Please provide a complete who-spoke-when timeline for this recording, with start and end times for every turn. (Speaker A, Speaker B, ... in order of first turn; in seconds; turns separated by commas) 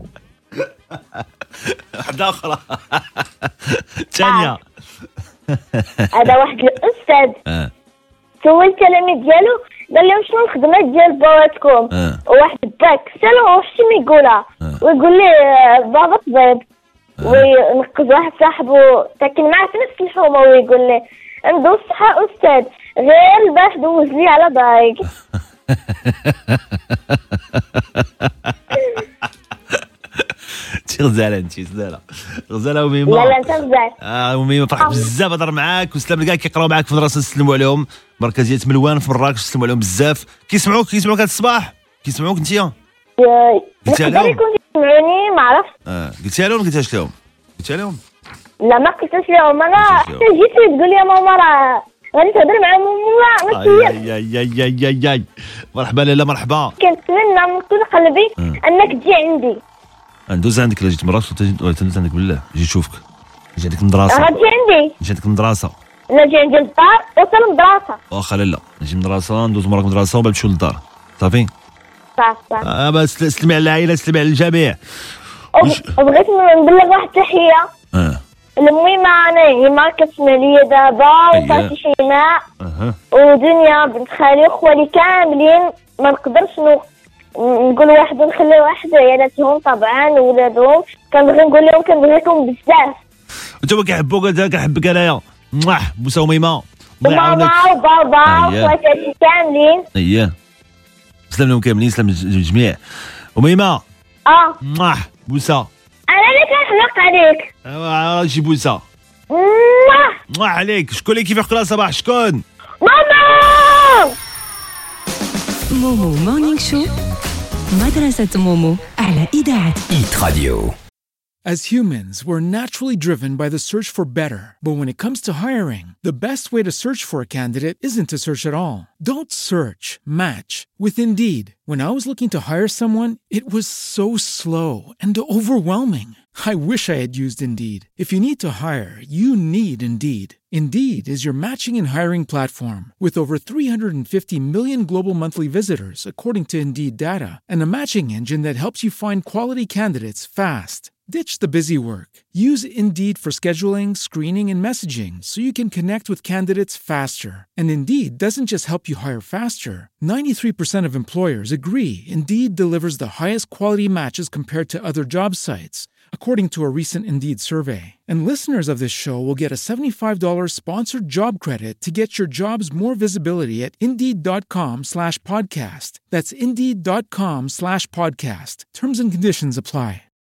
Speaker A: 0.6-4.6, Speaker B: 4.2-4.5, Speaker A: 5.5-6.1, Speaker B: 6.1-7.4, Speaker B: 8.4-16.6, Speaker A: 11.9-12.2, Speaker A: 17.2-17.5, Speaker B: 17.2-25.1, Speaker A: 25.7-28.5, Speaker A: 29.7-42.7, Speaker B: 33.1-33.9, Speaker B: 34.8-35.1, Speaker B: 43.2-45.7, Speaker A: 43.9-44.4, Speaker A: 45.9-48.0, Speaker B: 48.6-54.0, Speaker A: 49.8-50.2, Speaker A: 53.5-56.8, Speaker B: 56.8-59.6, Speaker A: 60.3-63.0, Speaker A: 63.6-64.4, Speaker B: 64.1-64.9, Speaker A: 65.0-65.8, Speaker B: 66.1-68.0, Speaker A: 68.1-71.5, Speaker B: 72.2-72.7, Speaker A: 72.6-74.8, Speaker B: 75.6-77.7, Speaker A: 77.9-78.2, Speaker B: 78.6-82.4, Speaker A: 81.3-81.7, Speaker A: 82.6-83.0, Speaker B: 83.1-86.9, Speaker B: 87.4-93.0, Speaker A: 93.6-97.6, Speaker B: 97.0-99.8, Speaker A: 98.2-98.8, Speaker A: 100.0-100.3, Speaker A: 101.3-102.8, Speaker A: 103.4-103.8, Speaker B: 104.3-104.6, Speaker A: 104.6-105.7, Speaker B: 106.1-107.5, Speaker A: 107.7-108.8, Speaker B: 109.3-110.1, Speaker A: 110.3-112.4, Speaker B: 112.8-114.1, Speaker C: 115.7-116.9, Speaker C: 117.7-119.9, Speaker D: 121.5-180.1